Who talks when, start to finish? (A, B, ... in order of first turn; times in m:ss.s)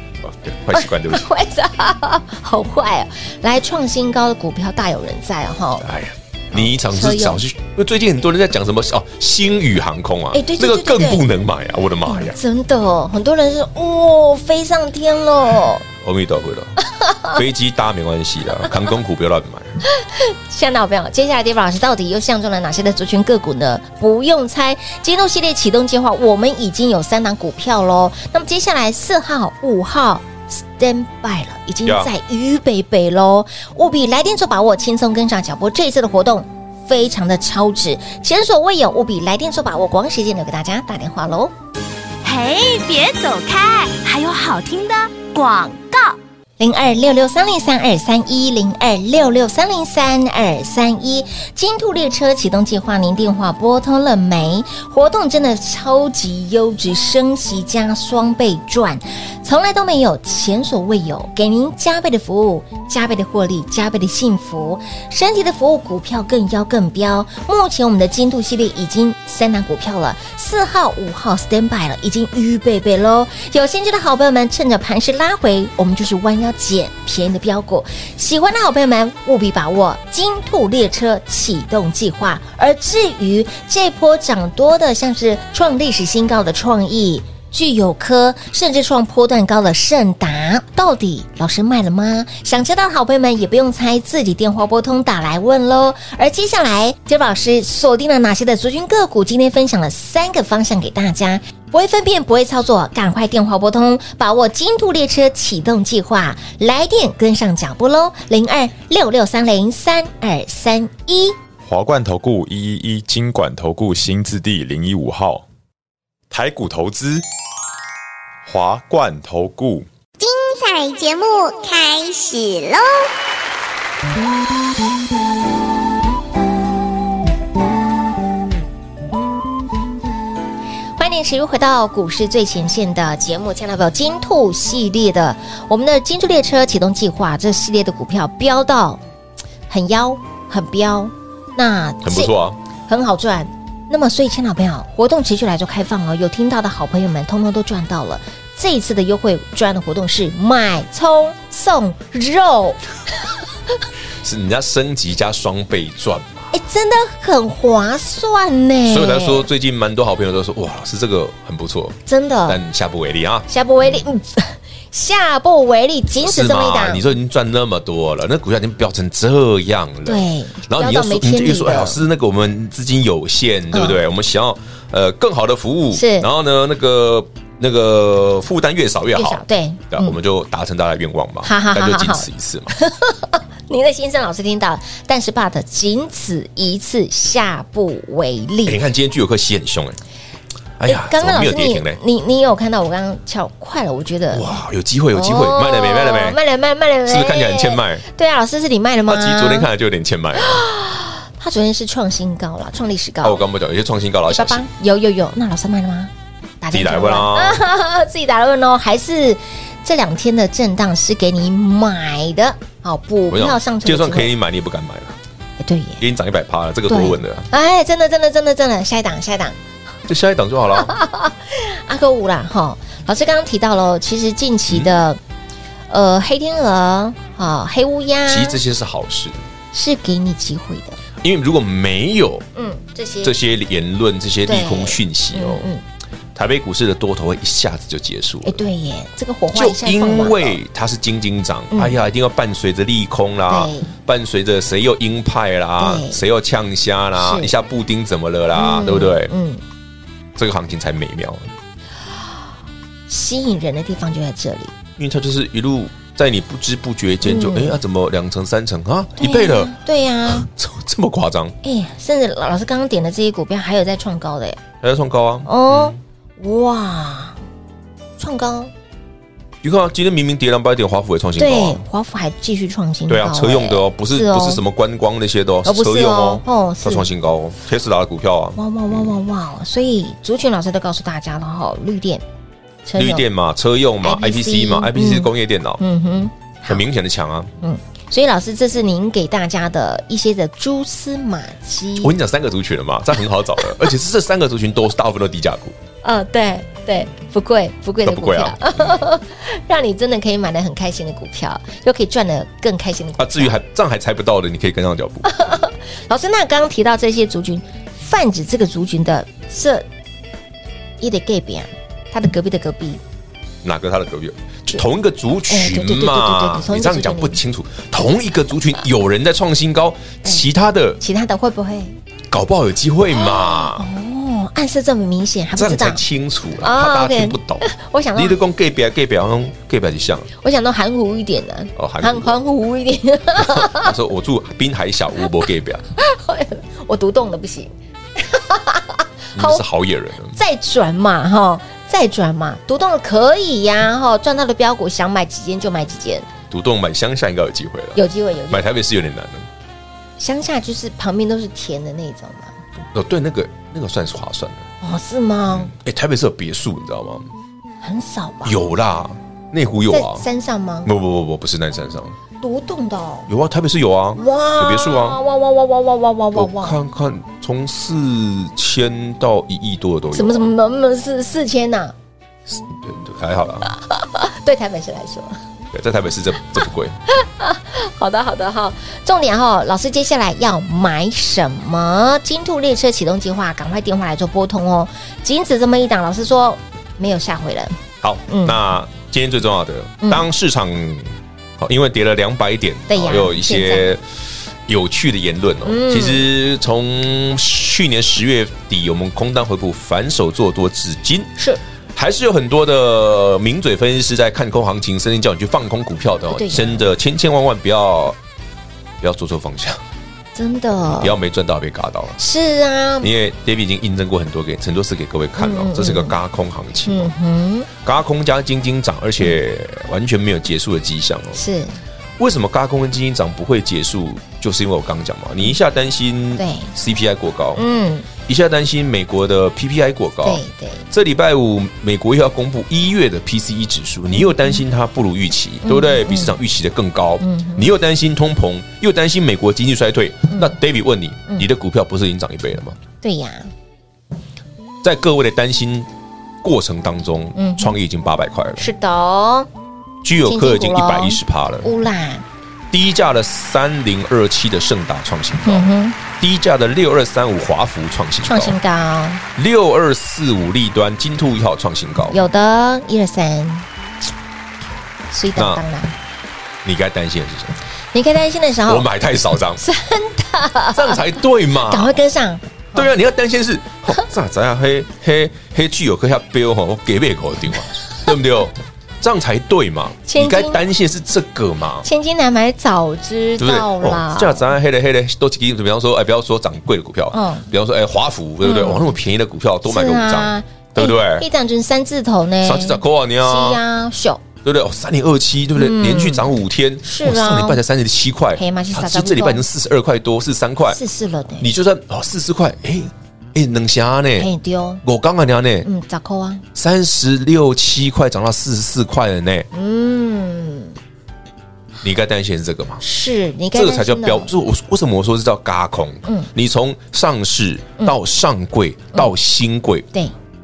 0:00.2-0:01.3 A
0:00.7-0:05.8 B
0:05.8-0:12.4 A
0:06.5-0:07.4 B
0:10.3-0:11.2 B
0:12.0-0:15.8 B
0:15.9-0:16.7 A
0:16.9-0:17.4 B
0:17.3-0:19.8 A
0:19.9-0:41.5 B
0:31.8-0:32.1 A
0:42.2-0:46.2 C
0:46.6-1:51.4 B
1:51.7-1:52.2 D
1:52.8-1:55.4 D
1:56.3-1:57.2 D
1:58.5-1:59.8 D
2:00.2-2:03.1 E
2:11.0-2:19.0 B
2:19.7-2:22.3 B
2:22.0-2:22.6 A
2:22.9-2:32.8 B
2:34.2-2:36.5 A
2:36.5-2:39.5 B
2:38.8-2:44.0 A
2:42.0-2:42.6 B
2:43.5-2:47.1 B
2:46.2-3:02.7 A
2:50.0-2:52.0 B
2:53.7-2:54.0 B
2:55.9-2:56.3 B
2:59.1-3:00.2 B
3:01.4-3:08.8 B
3:08.6-3:10.0 A
3:10.8-3:12.0 A
3:10.8-3:14.6 B
3:14.3-3:16.4 A
3:15.1-3:19.7 B
3:17.0-3:18.0 A
3:19.1-3:20.6 A
3:20.4-3:23.4 B
3:23.2-3:24.6 A
3:24.3-3:34.3 B
3:26.7-3:27.6 A
3:33.3-3:35.2 A
3:35.6-3:36.0 B
3:36.0-3:37.4 A
3:36.9-3:39.6 B
3:40.1-3:40.9 A
3:40.8-3:45.2 B
3:45.9-3:48.6 B
3:48.2-3:49.4 A
3:49.7-3:51.0 B
3:51.2-3:52.4 A
3:52.6-3:53.4 B
3:53.2-3:55.7 A
3:54.4-3:55.8 B
3:56.3-3:58.6 A
3:58.4-4:00.6 B
3:59.5-4:09.3 A
4:01.7-4:02.0 B
4:03.5-4:03.9 B
4:05.8-4:06.2 B
4:07.2-4:07.5 B
4:08.5-4:09.6 B
4:10.4-4:11.5 A
4:13.1-4:14.7 B
4:15.0-4:19.7 A
4:17.2-4:17.8 B
4:19.2-4:20.5 B
4:20.3-4:21.5 A
4:21.6-4:24.6 B
4:24.8-4:26.0 A
4:25.4-4:27.4 B
4:28.2-4:28.7 B
4:29.6-4:31.8 A
4:31.4-4:34.6 B
4:33.1-4:39.1 A
4:35.6-4:37.1 B
4:38.6-4:42.2 B
4:42.8-4:43.2 B
4:43.0-4:45.8 A
4:44.0-4:46.8 B
4:46.7-4:47.5 A
4:47.6-4:52.2 B
4:52.0-4:55.8 A
4:56.0-5:03.6 B
4:58.0-4:59.0 A
5:03.2-5:05.3 A
5:05.2-5:09.8 B
5:11.0-5:13.0 B
5:13.6-5:21.0 A
5:15.5-5:17.4 B
5:21.0-5:22.0 B
5:22.3-5:23.9 A
5:23.1-5:26.0 B
5:25.6-5:30.3 A
5:26.6-5:28.4 B
5:30.4-5:33.9 B
5:31.8-5:32.4 A
5:33.4-5:35.8 A
5:36.0-5:39.6 B
5:39.3-5:40.4 A
5:40.3-5:46.3 B
5:46.5-5:49.5 A
5:47.9-5:48.7 B
5:50.2-5:52.5 B
5:52.9-5:54.6 A
5:54.8-5:55.7 B
5:55.5-5:57.3 A
5:57.8-5:58.6 B
5:58.4-6:00.2 A
5:59.9-6:00.9 B
6:00.8-6:02.1 A
6:02.4-6:03.3 B
6:03.3-6:05.2 A
6:04.1-6:06.8 B
6:06.3-6:10.5 A
6:10.1-6:11.9 B
6:12.5-6:13.7 A
6:13.7-6:15.4 B
6:15.7-6:17.0 A
6:17.1-6:28.6 B
6:28.0-6:34.0 A
6:32.9-6:33.9 B
6:34.7-6:41.3 A
6:35.6-6:36.2 B
6:41.9-6:48.2 A
6:46.3-6:46.8 B
6:49.0-6:49.8 A
6:50.3-6:51.2 B
6:51.0-6:52.2 A
6:52.2-6:53.1 B
6:53.0-6:57.1 A
6:55.4-6:56.2 B
6:56.8-6:57.7 B
6:57.8-7:01.4 A
7:01.3-7:01.8 B
7:02.2-7:07.6 A
7:06.4-7:06.7 B
7:07.6-7:08.1 B
7:08.3-7:22.8 A
7:10.2-7:10.8 B
7:14.1-7:14.6 B
7:15.6-7:16.4 B
7:17.2-7:17.7 B
7:20.3-7:20.6 B
7:23.0-7:23.5 B
7:24.8-7:25.9 A
7:26.4-7:28.7 A
7:27.4-7:27.8 B
7:28.6-7:29.5 B
7:30.0-7:31.7 A
7:30.2-7:32.2 B
7:32.7-7:38.6 A
7:35.4-7:36.0 B
7:38.2-7:39.2 B
7:39.4-7:42.2 A
7:42.1-7:43.7 B
7:45.1-7:45.9 B
7:45.4-7:45.6 A
7:46.6-7:47.6 A
7:47.9-7:48.8 B
7:48.7-7:49.6 A
7:49.6-7:51.1 B
7:50.7-7:51.9 A
7:51.6-7:52.9 B
7:52.7-8:01.9 A
8:00.0-8:00.6 B
8:01.8-8:04.5 B
8:03.4-8:11.2 A
8:07.1-8:07.4 B
8:08.4-8:08.9 B
8:09.6-8:14.2 B
8:12.4-8:13.6 A
8:14.4-8:20.8 A
8:15.6-8:16.3 B
8:16.8-8:17.6 B
8:18.3-8:19.4 B
8:20.7-8:21.5 B
8:21.4-8:24.3 A
8:24.2-8:24.8 B
8:24.8-8:25.7 A
8:25.6-8:26.4 B
8:26.5-8:29.5 A
8:29.5-8:30.8 B
8:31.8-8:32.8 A
8:32.8-8:34.3 B
8:33.5-8:39.9 A